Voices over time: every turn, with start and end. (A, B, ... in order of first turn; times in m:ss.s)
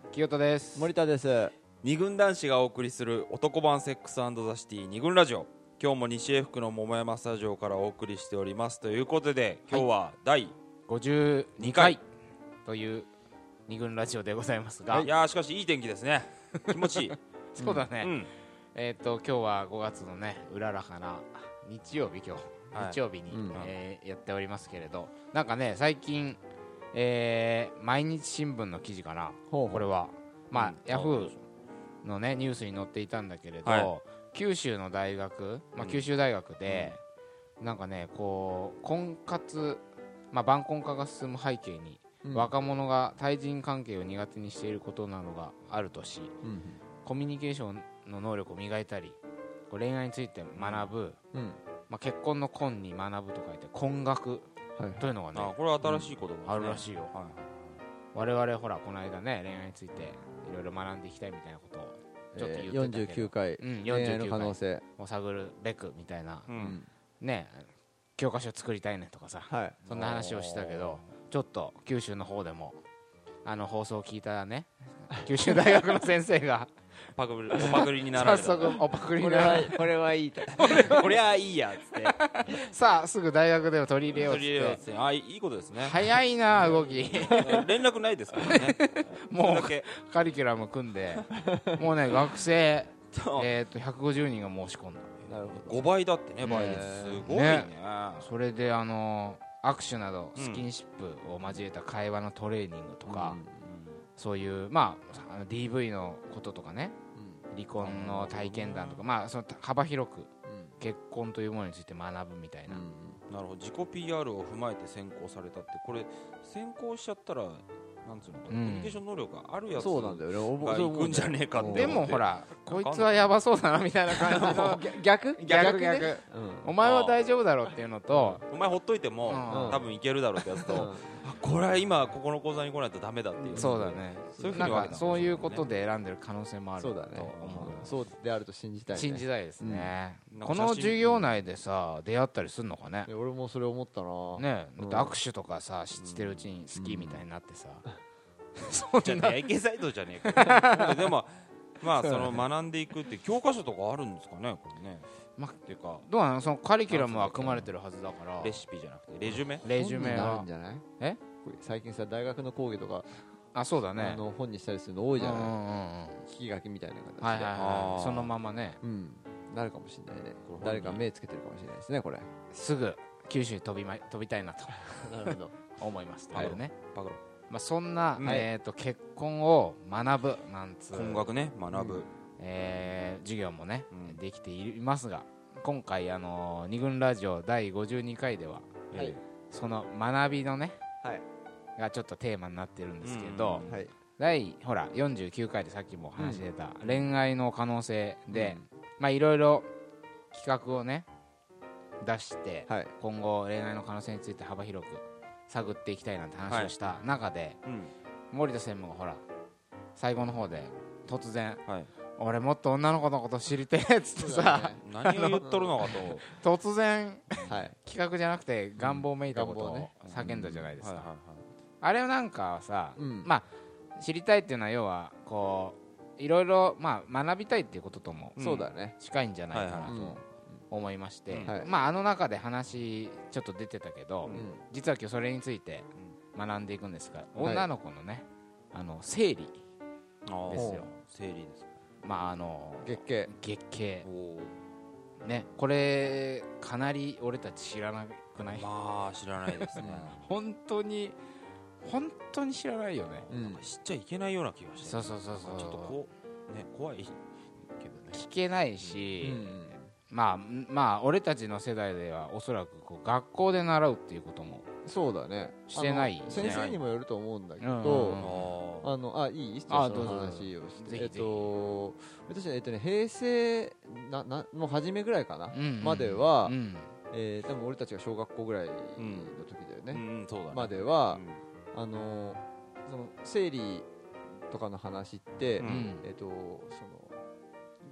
0:00.1-0:00.9 A
0:00.7-0:01.5 B
0:01.8-0:10.5 C
0:10.9-0:12.0 A
0:11.6-0:12.0 C
0:12.6-0:13.1 A
0:13.7-0:15.1 A
0:15.0-0:17.2 C
0:16.7-0:18.2 A
0:17.6-0:17.9 B
0:18.0-0:18.3 C
0:18.7-0:26.4 A
0:22.7-0:23.0 C
0:23.3-0:23.6 B
0:26.9-0:31.3 A
0:29.5-0:29.9 B
0:30.5-0:31.4 C
0:32.0-0:37.0 A
0:33.6-0:33.9 C
0:35.8-0:36.0 C
0:36.6-0:37.0 C
0:37.6-0:46.3 A
0:42.2-0:42.5 B
0:46.4-0:46.8 B
0:47.0-0:49.2 A
0:49.7-0:51.2 A
0:50.6-0:50.9 C
0:51.3-0:51.6 B
0:51.9-0:55.6 A
0:54.8-0:55.1 B
0:55.3-0:57.6 C
0:55.8-0:56.1 B
0:56.4-0:57.1 A
0:58.1-1:06.6 A
1:02.3-1:04.8 B
1:06.5-1:06.8 C
1:06.6-1:06.9 B
1:07.2-1:12.8 A
1:09.5-1:09.8 B
1:09.8-1:11.1 C
1:13.4-1:16.7 A
1:17.2-1:18.8 C
1:17.5-1:19.8 A
1:19.2-1:20.8 B
1:20.6-1:22.5 C
1:20.6-1:21.1 A
1:22.1-1:24.8 A
1:24.1-1:26.2 C
1:25.8-1:27.6 A
1:26.6-1:27.6 B
1:27.1-1:29.9 C
1:28.4-1:35.2 A
1:33.1-1:33.5 C
1:35.3-1:35.9 B
1:35.5-1:38.3 C
1:36.4-1:37.3 B
1:36.4-1:43.4 A
1:40.4-1:40.6 C
1:43.1-1:43.7 B
1:43.6-1:44.0 C
1:44.2-1:47.0 A
1:47.1-1:47.4 B
1:47.5-1:52.8 A
1:47.8-1:49.1 C
1:50.4-1:50.8 B
1:52.7-1:53.2 B
1:53.3-2:03.3 C
1:58.5-1:59.0 A
1:59.7-2:02.0 B
2:01.6-2:08.4 A
2:04.2-2:04.7 C
2:04.2-2:06.7 B
2:06.8-2:07.2 C
2:08.1-2:08.4 B
2:08.5-2:13.8 C
2:09.2-2:09.8 A
2:09.5-2:09.9 B
2:10.7-2:11.1 B
2:13.4-2:15.0 B
2:13.5-2:17.9 A
2:14.4-2:15.6 C
2:16.8-2:19.9 B
2:17.3-2:17.8 C
2:18.9-2:23.1 A
2:20.3-2:21.3 C
2:23.0-2:25.2 B
2:24.4-2:27.8 A
2:25.9-2:26.5 C
2:26.7-2:27.2 B
2:28.6-2:29.4 A
2:29.0-2:35.1 C
2:30.3-2:30.9 A
2:35.4-2:38.6 A
2:35.7-2:36.0 C
2:36.9-2:37.7 C
2:38.4-2:39.6 C
2:39.6-2:40.5 A
2:39.6-2:40.8 B
2:41.4-2:43.2 B
2:43.5-2:44.2 A
2:44.0-2:45.6 B
2:45.2-2:46.2 A
2:46.2-2:47.5 B
2:47.2-2:48.8 A
2:47.5-2:48.3 C
2:48.8-2:52.3 B
2:50.4-2:51.0 C
2:52.5-2:56.8 A
2:54.9-2:55.5 B
2:56.3-2:57.2 C
2:57.5-3:01.3 A
2:58.2-2:58.4 C
2:58.2-2:58.5 B
3:00.9-3:02.1 C
3:01.7-3:02.1 B
3:02.4-3:08.9 A
3:03.9-3:04.2 C
3:08.9-3:09.2 B
3:08.9-3:09.2 C
3:09.5-3:10.8 A
3:11.8-3:13.6 A
3:13.0-3:13.8 C
3:13.7-3:13.9 B
3:14.2-3:19.7 A
3:16.2-3:16.4 B
3:16.8-3:17.1 C
3:18.3-3:18.6 B
3:20.3-3:21.0 A
3:22.0-3:27.6 A
3:22.7-3:22.9 B
3:27.6-3:27.9 C
3:28.3-3:29.2 A
3:30.0-3:31.6 A
3:32.2-3:41.1 A
3:34.2-3:34.8 B
3:34.8-3:36.2 C
3:35.4-3:35.8 B
3:37.3-3:37.6 C
3:37.5-3:37.7 B
3:39.3-3:39.9 B
3:40.0-3:41.4 C
3:41.8-3:48.4 A
3:43.0-3:43.3 B
3:48.4-3:48.7 C
3:48.4-3:49.0 B
3:49.0-3:59.6 A
3:49.5-3:50.0 C
3:49.8-3:50.5 B
3:51.4-3:51.7 B
3:54.3-3:54.6 B
3:57.4-3:57.7 B
4:00.2-4:01.7 C
4:00.5-4:00.9 A
4:00.5-4:00.9 B
4:02.0-4:04.1 A
4:02.8-4:03.3 B
4:04.0-4:04.6 C
4:05.2-4:08.7 A
4:08.5-4:10.2 C
4:09.6-4:11.2 A
4:09.8-4:10.1 B
4:11.8-4:13.3 A
4:13.2-4:18.2 C
4:13.3-4:13.6 B
4:14.8-4:15.9 A
4:18.1-4:24.6 A
4:18.8-4:19.1 C
4:19.2-4:19.9 B
4:24.8-4:28.3 B
4:25.7-4:26.6 A
4:26.3-4:26.8 C
4:27.6-4:28.4 A
4:28.2-4:28.9 C
4:28.8-4:36.6 B
4:29.7-4:31.5 A
4:35.5-4:36.9 A
4:37.1-4:43.9 B
4:39.0-4:39.4 C
4:39.9-4:41.4 C
4:44.5-4:47.2 B
4:45.6-4:45.9 C
4:45.6-4:46.0 A